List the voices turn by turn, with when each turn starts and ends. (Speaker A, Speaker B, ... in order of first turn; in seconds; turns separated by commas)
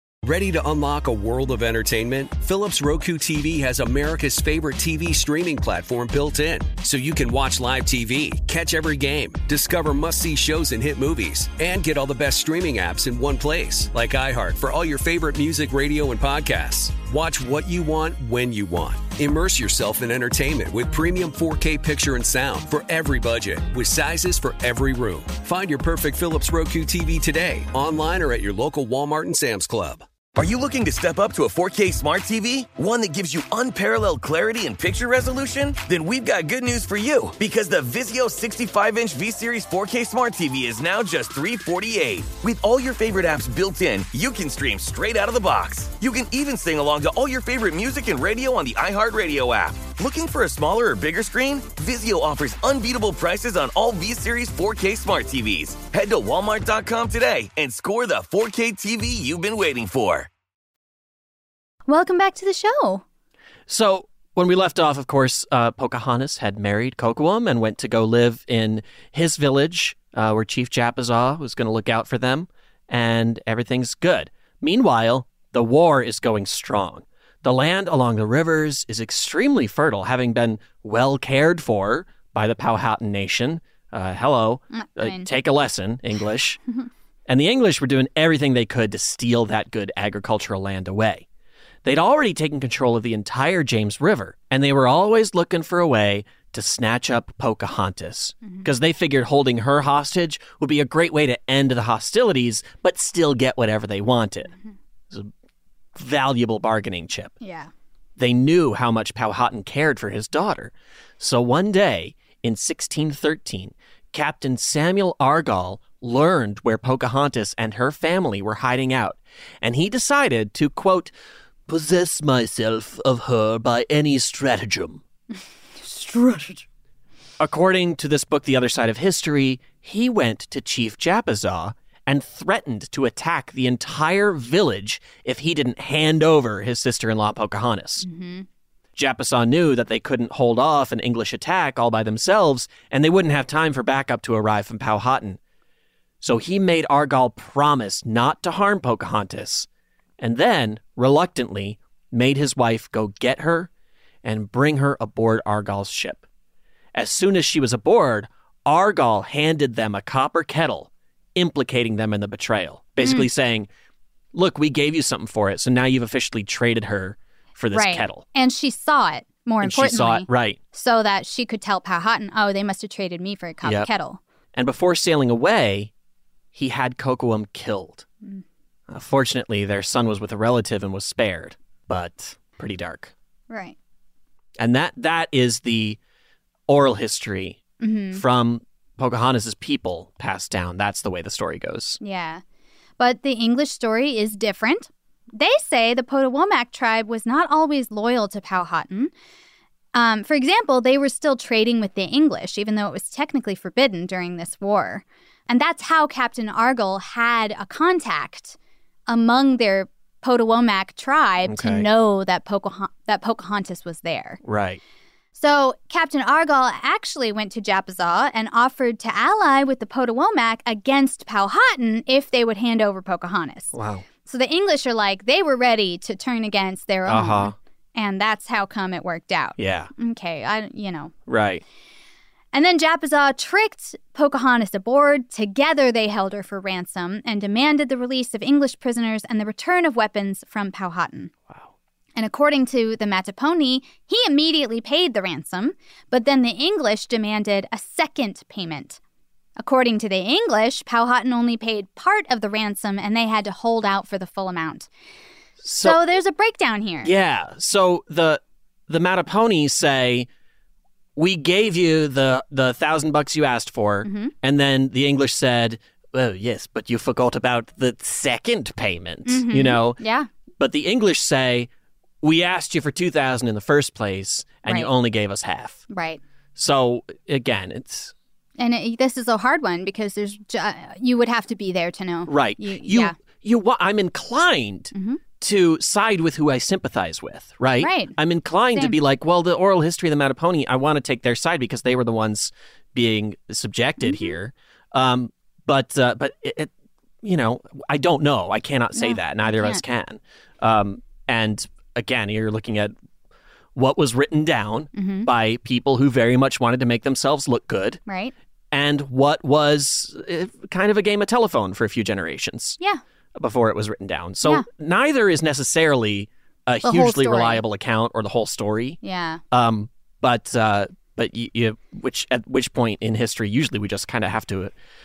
Speaker A: 0.2-30.1, Speaker B: 30.3-60.3, Speaker C: 61.9-63.0, Speaker D: 63.7-86.6, Speaker C: 84.7-85.3, Speaker D: 87.3-91.2, Speaker D: 91.8-104.5, Speaker D: 106.0-107.3, Speaker C: 107.4-107.7, Speaker D: 108.2-121.1, Speaker D: 121.7-125.0, Speaker C: 125.3-126.6, Speaker D: 127.4-138.0, Speaker C: 138.0-138.4, Speaker D: 138.9-145.4, Speaker D: 146.2-149.7, Speaker D: 150.2-153.7, Speaker D: 154.2-156.2, Speaker D: 156.9-163.7, Speaker C: 163.0-163.3, Speaker D: 164.3-168.2, Speaker C: 167.7-174.2, Speaker D: 169.6-170.6, Speaker D: 173.6-173.9, Speaker D: 174.5-175.9, Speaker D: 176.5-178.1, Speaker D: 178.9-183.1, Speaker C: 183.5-183.8, Speaker D: 184.6-186.0, Speaker D: 186.7-187.6, Speaker C: 187.8-188.2, Speaker D: 188.1-192.0, Speaker C: 192.0-192.4, Speaker C: 193.0-199.1, Speaker C: 199.9-214.4, Speaker D: 211.4-211.9, Speaker D: 214.4-214.8, Speaker C: 215.3-223.7, Speaker D: 223.7-224.0, Speaker C: 224.2-231.1, Speaker D: 227.1-227.5, Speaker D: 229.6-229.9, Speaker D: 231.3-231.6, Speaker C: 232.5-241.3, Speaker C: 242.2-249.0, Speaker C: 249.6-254.9, Speaker D: 255.6-256.0, Speaker C: 255.8-257.1, Speaker D: 257.0-260.3, Speaker D: 261.1-270.0, Speaker C: 264.0-264.3, Speaker C: 269.2-270.3, Speaker D: 270.6-271.7, Speaker D: 272.2-275.8, Speaker C: 274.6-274.9, Speaker C: 275.9-276.2, Speaker D: 276.6-278.1, Speaker C: 278.6-283.1, Speaker D: 282.3-296.7, Speaker C: 284.9-285.2, Speaker C: 287.8-288.1, Speaker C: 294.0-294.4, Speaker D: 297.2-302.9, Speaker C: 298.9-299.8, Speaker D: 303.7-308.0, Speaker C: 304.9-305.3, Speaker C: 308.1-308.3, Speaker D: 308.7-312.8, Speaker D: 313.4-319.0, Speaker C: 316.8-317.6, Speaker C: 319.0-319.4, Speaker D: 319.5-324.7